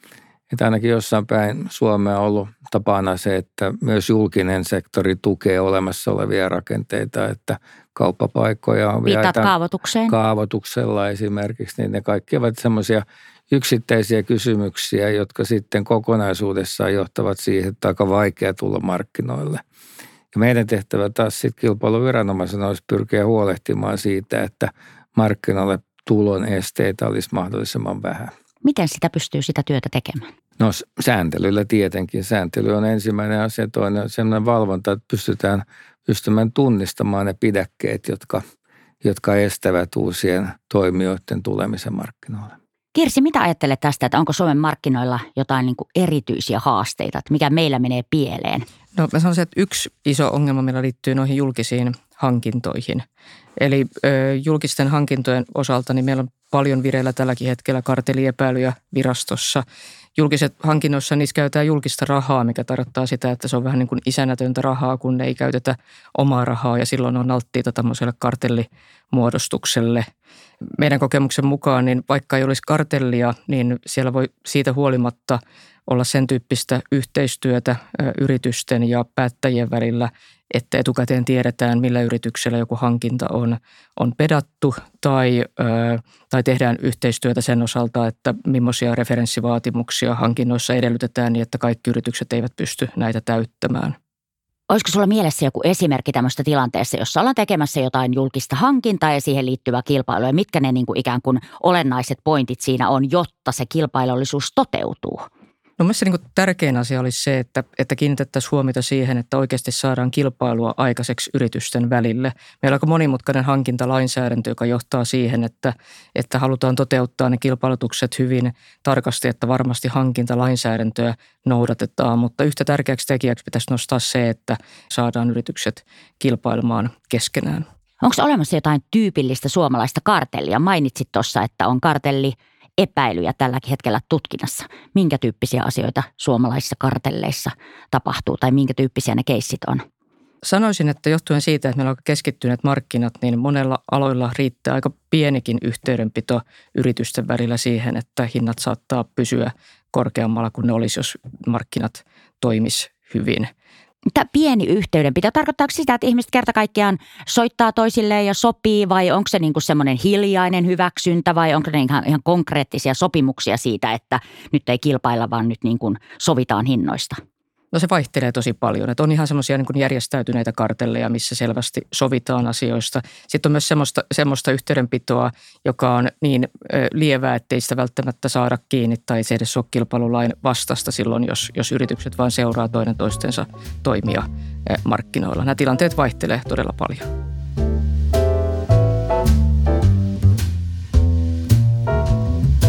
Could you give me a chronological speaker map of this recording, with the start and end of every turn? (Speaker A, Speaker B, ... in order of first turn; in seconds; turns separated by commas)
Speaker A: 0.5-9.5, Speaker B: 9.1-10.2, Speaker A: 10.1-19.6, Speaker A: 20.3-28.3, Speaker B: 28.6-30.3, Speaker A: 30.6-38.4, Speaker A: 39.0-42.6, Speaker B: 42.9-48.7, Speaker C: 49.0-53.0, Speaker C: 53.6-59.6, Speaker C: 60.2-70.1, Speaker C: 70.8-94.0, Speaker B: 94.7-105.3, Speaker C: 105.8-127.7, Speaker B: 128.0-139.8, Speaker C: 140.4-153.5, Speaker B: 154.1-167.2, Speaker C: 167.7-187.1